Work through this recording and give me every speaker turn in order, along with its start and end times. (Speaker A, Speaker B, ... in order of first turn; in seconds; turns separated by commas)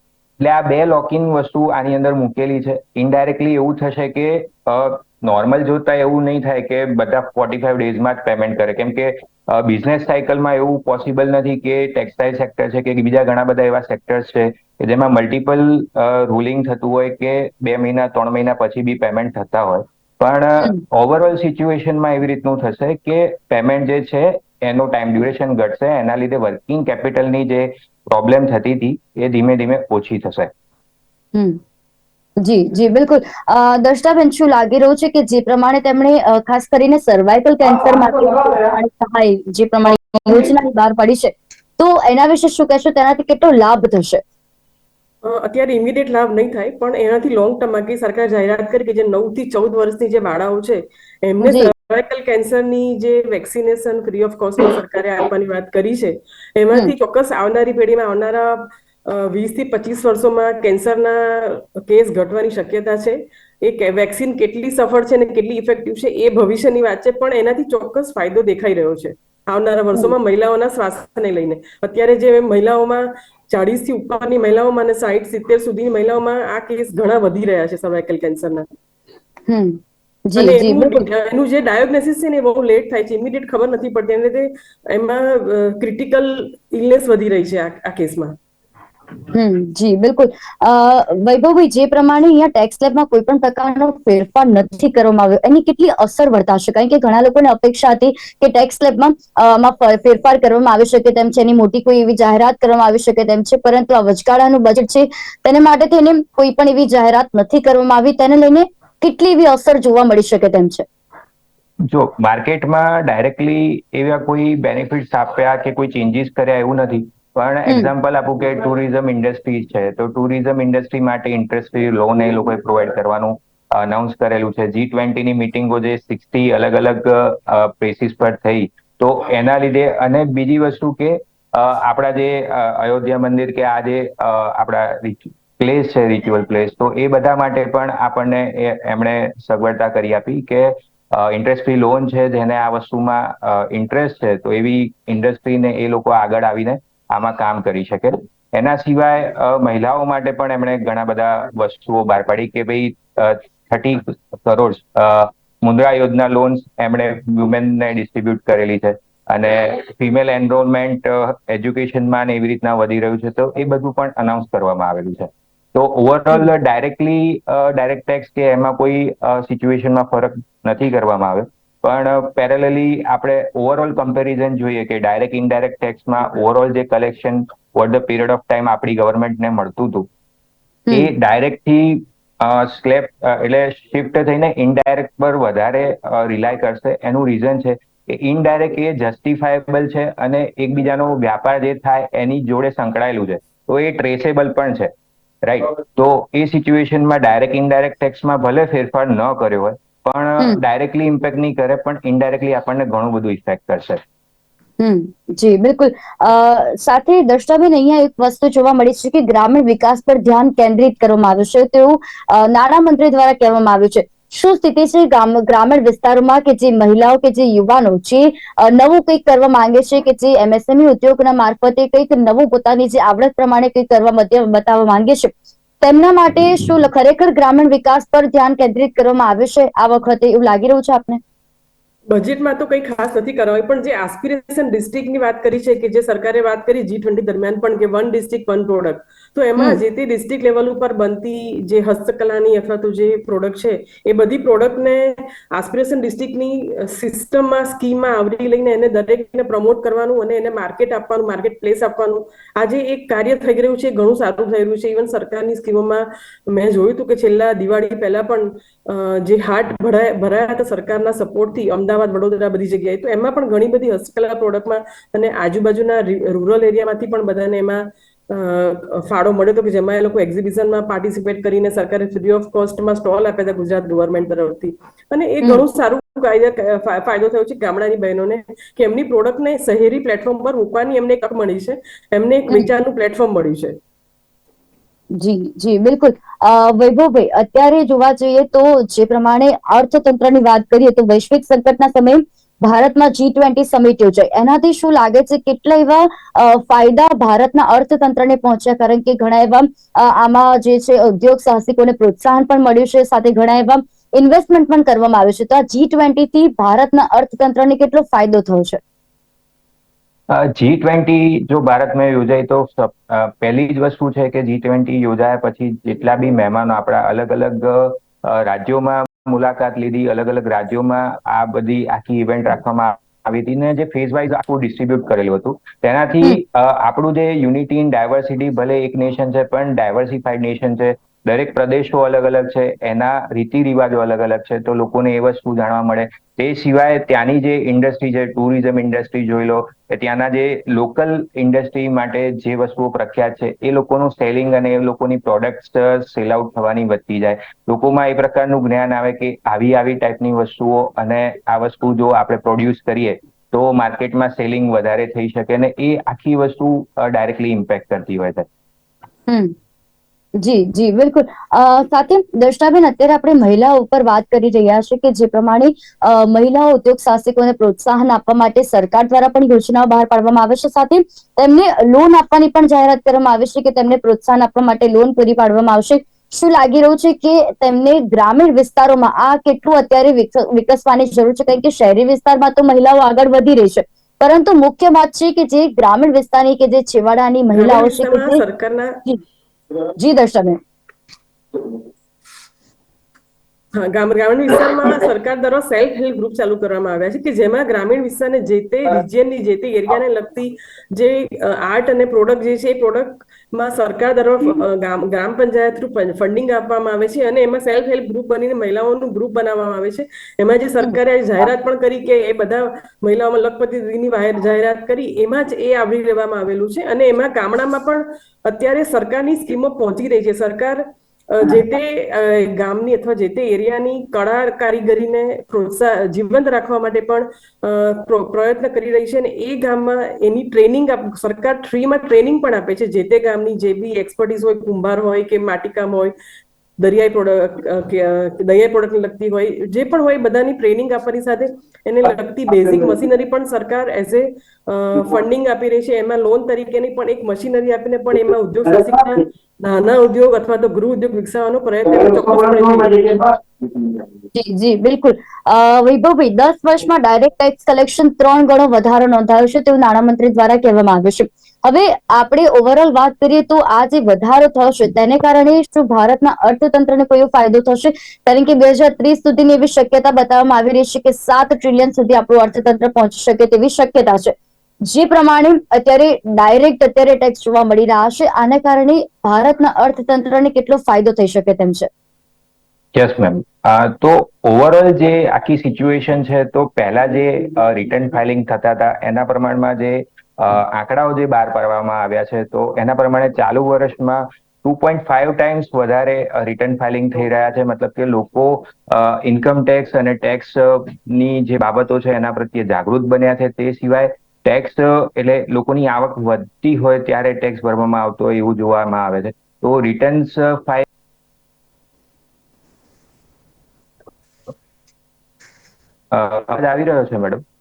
Speaker A: 0.4-30.5, Speaker B: 32.4-44.2, Speaker C: 45.2-78.7, Speaker B: 51.4-51.7, Speaker B: 79.5-81.1, Speaker C: 80.3-88.3, Speaker B: 89.3-110.8, Speaker A: 111.8-180.1, Speaker B: 117.7-117.9, Speaker A: 180.9-194.9, Speaker A: 195.4-204.0, Speaker B: 204.8-231.2, Speaker C: 232.1-283.8, Speaker B: 285.2-308.8, Speaker A: 310.3-358.4, Speaker B: 359.3-359.5, Speaker B: 360.4-388.4, Speaker C: 387.5-389.0, Speaker B: 390.0-390.6, Speaker C: 393.7-436.1, Speaker C: 436.8-453.2, Speaker B: 454.3-474.3, Speaker B: 474.9-481.9, Speaker A: 482.9-510.8, Speaker A: 516.1-517.4